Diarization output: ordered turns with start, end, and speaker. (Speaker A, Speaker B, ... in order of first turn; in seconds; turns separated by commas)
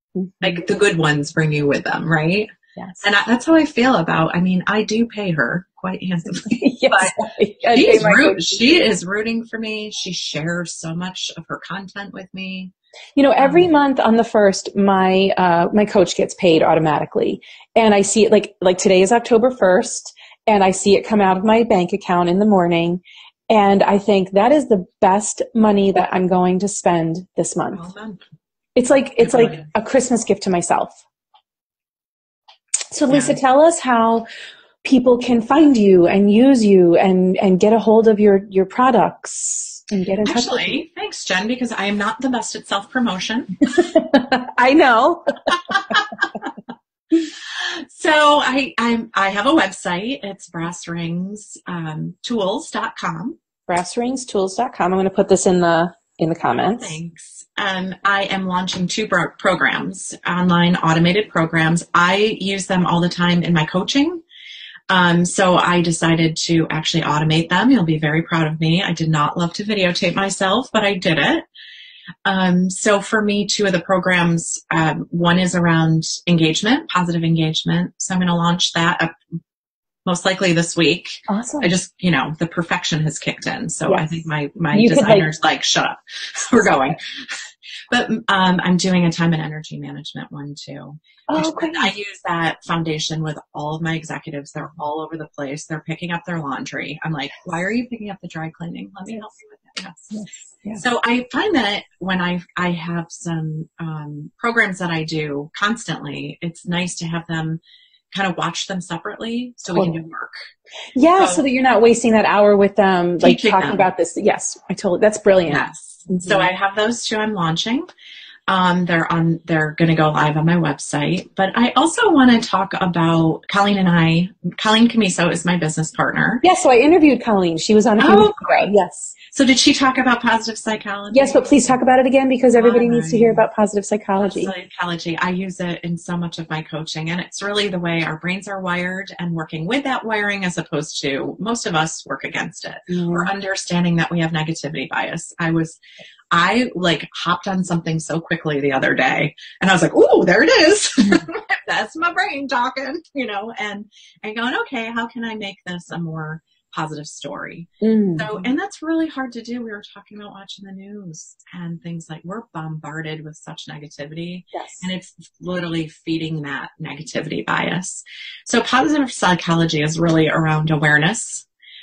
Speaker A: 0.1-0.6, Speaker B: 0.4-2.5, Speaker A: 2.8-3.0, Speaker B: 3.0-7.2, Speaker A: 6.4-8.8, Speaker B: 7.7-12.7, Speaker A: 13.2-27.8, Speaker B: 13.4-13.7, Speaker B: 27.7-28.2, Speaker A: 28.8-31.0, Speaker B: 29.2-29.6, Speaker A: 32.9-34.2, Speaker B: 33.1-33.4, Speaker A: 34.8-40.8, Speaker B: 40.2-43.6, Speaker A: 43.8-46.0, Speaker B: 45.7-46.0, Speaker B: 47.4-53.4, Speaker A: 53.7-57.0, Speaker B: 56.5-64.2, Speaker B: 64.9-71.4, Speaker B: 72.2-79.1, Speaker B: 80.0-87.4, Speaker A: 81.3-81.7, Speaker A: 83.8-85.2, Speaker B: 87.9-100.2, Speaker A: 91.3-91.9, Speaker A: 100.1-100.8, Speaker B: 100.7-107.6, Speaker B: 108.1-110.3, Speaker A: 109.7-110.0, Speaker A: 111.0-116.5, Speaker B: 111.2-111.4, Speaker B: 113.2-113.8, Speaker B: 115.5-117.9, Speaker B: 118.5-126.4, Speaker A: 126.4-129.1, Speaker B: 128.0-128.7, Speaker B: 129.3-131.5, Speaker A: 131.1-134.5, Speaker B: 132.6-133.4, Speaker B: 134.2-145.8, Speaker A: 142.9-143.3, Speaker B: 146.3-171.4, Speaker A: 157.8-158.3, Speaker A: 164.5-164.9